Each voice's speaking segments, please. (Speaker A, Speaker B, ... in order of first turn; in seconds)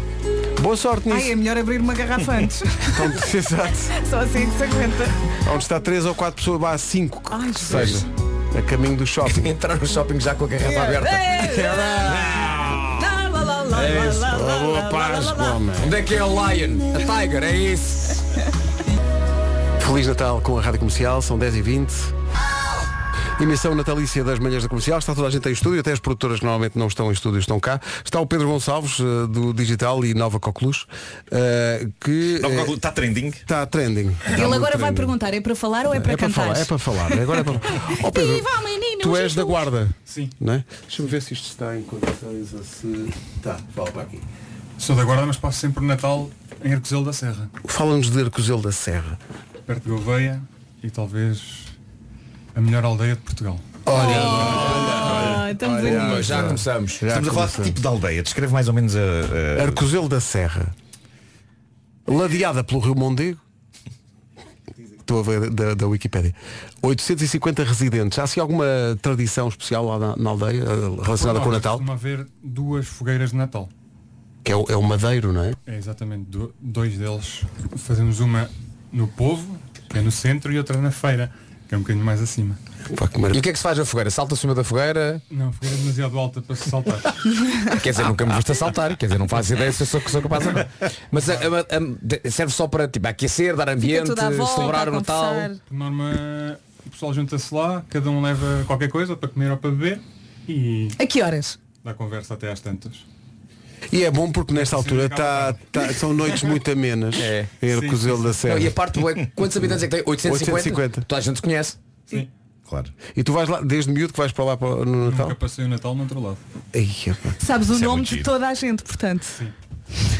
Speaker A: 0.6-1.3, 2.9-4.0, 5.4-9.5, 11.5-12.8, 13.8-15.9, 19.8-22.1, 23.4-32.8, 33.5-35.1, 35.9-38.5, 39.0-44.2, 47.6-49.2, 53.9-57.8, 59.5-60.7, 62.1-63.4, 65.0-71.9, 74.5-75.6, 82.9-83.4, 103.9-108.8, 110.2-111.0, 113.2-115.4, 116.7-117.4
Speaker B: 1.1-3.2, 3.9-5.2, 7.3-8.0, 10.6-15.6, 34.3-39.7, 53.9-56.5, 87.4-87.8, 93.8-95.6, 101.0-101.6, 117.4-119.4
Speaker C: 7.7-8.0, 9.3-12.5, 13.7-14.2, 15.8-18.2, 53.9-57.0, 83.3-85.2, 87.7-95.5, 107.2-107.5, 108.5-111.8
Speaker D: 32.4-33.4, 57.1-59.8, 112.7-112.9, 117.7-118.3
Speaker E: 40.1-40.3, 44.8-47.5, 49.7-51.8, 52.5-53.8, 54.4-54.7, 71.1-73.7, 75.7-82.6, 85.3-87.1, 91.2-91.5, 95.7-101.0, 101.8-103.0, 104.5-105.8, 107.6-108.4, 115.0-116.4